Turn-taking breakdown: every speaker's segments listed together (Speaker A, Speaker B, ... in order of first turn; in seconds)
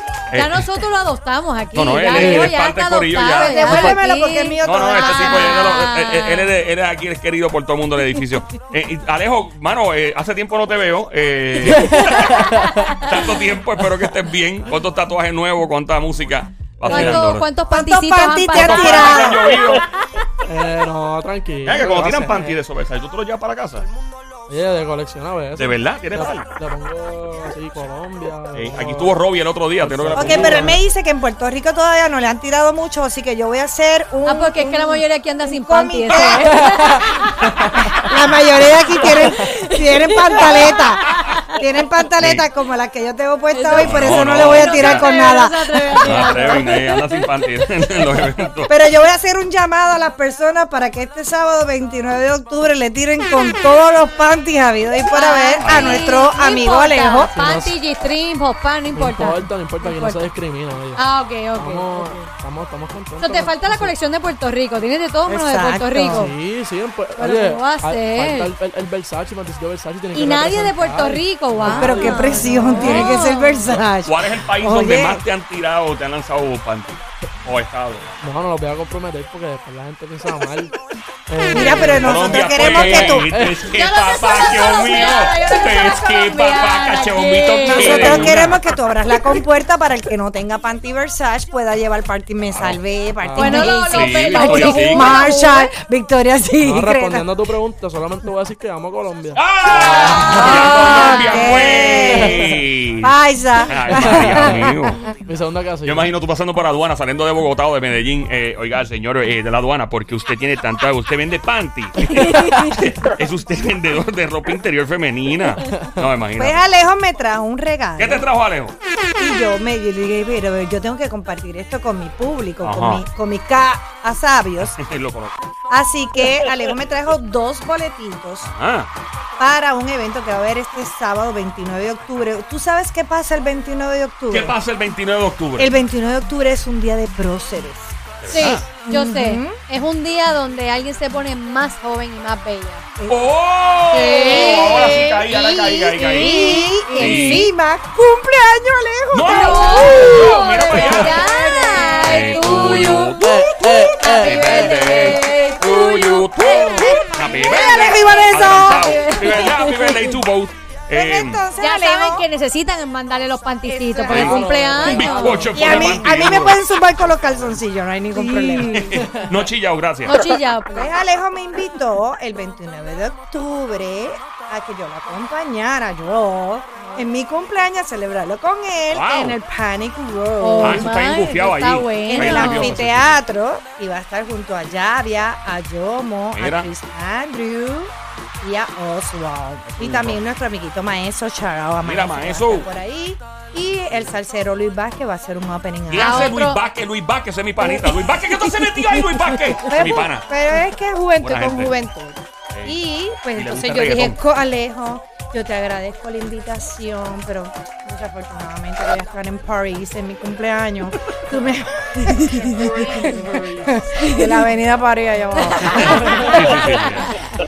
Speaker A: 0.3-0.7, 1.7-3.9, 4.6-17.5, 18.5-19.9, 21.6-23.9, 25.6-26.5, 28.5-30.8, 37.4-38.0, 42.2-42.4, 43.7-45.1, 46.0-48.7, 55.6-56.0, 74.0-78.2, 81.6-88.6, 93.9-95.2, 99.3-105.0, 105.8-116.6, 118.0-118.8, 122.6-123.0, 124.6-125.3, 128.4-128.9, 134.3-135.7, 138.2-138.7, 143.1-146.4, 147.0-147.5, 149.1-151.2, 151.8-153.5, 154.2-161.4, 164.1-166.6, 168.8-170.2, 178.9-179.4, 180.6-183.2, 186.3-186.7, 189.6-190.2, 191.8-192.7, 195.9-200.3, 201.2-201.7, 202.5-202.8, 203.3-204.2, 216.2-217.1
Speaker B: 0.3-6.5, 16.9-19.8, 34.2-37.5, 39.0-41.5, 43.5-48.2, 55.1-60.2, 61.0-62.3, 63.2-66.3, 67.2-68.5, 70.1-73.8, 83.7-88.3, 93.4-95.7, 100.9-101.3, 112.1-112.7, 138.3-142.8, 143.9-145.2, 146.0-147.5, 149.3-153.2, 154.0-157.2, 158.5-160.2, 161.6-165.8, 168.1-168.9, 170.0-170.9, 180.4-182.8, 196.0-196.6, 215.4-217.2
Speaker C: 2.1-2.5, 3.7-3.9, 11.7-13.0, 16.8-17.3, 20.4-22.6, 24.5-29.2, 29.8-30.8, 36.5-37.0, 57.3-57.8, 58.9-61.0, 61.6-63.9, 66.1-73.1, 78.2-80.7, 81.3-83.8, 93.2-93.8, 96.6-101.1, 102.1-102.6, 103.9-104.5, 105.2-106.1, 152.5-154.3, 164.1-166.2, 168.9-169.3, 213.0-213.7
Speaker D: 3.2-5.7, 17.7-19.8, 30.1-37.0, 37.9-46.5, 48.7-57.3, 65.3-66.3, 71.6-75.2, 81.5-83.3, 87.7-97.2, 99.8-105.1, 116.4-118.2, 119.2-124.8, 125.7-128.5, 129.4-134.6, 135.6-139.5, 143.0-143.3, 143.9-152.4, 153.3-155.6, 156.8-159.1, 160.9-162.2, 163.6-168.9, 170.7-181.0, 182.0-196.3, 199.7-216.6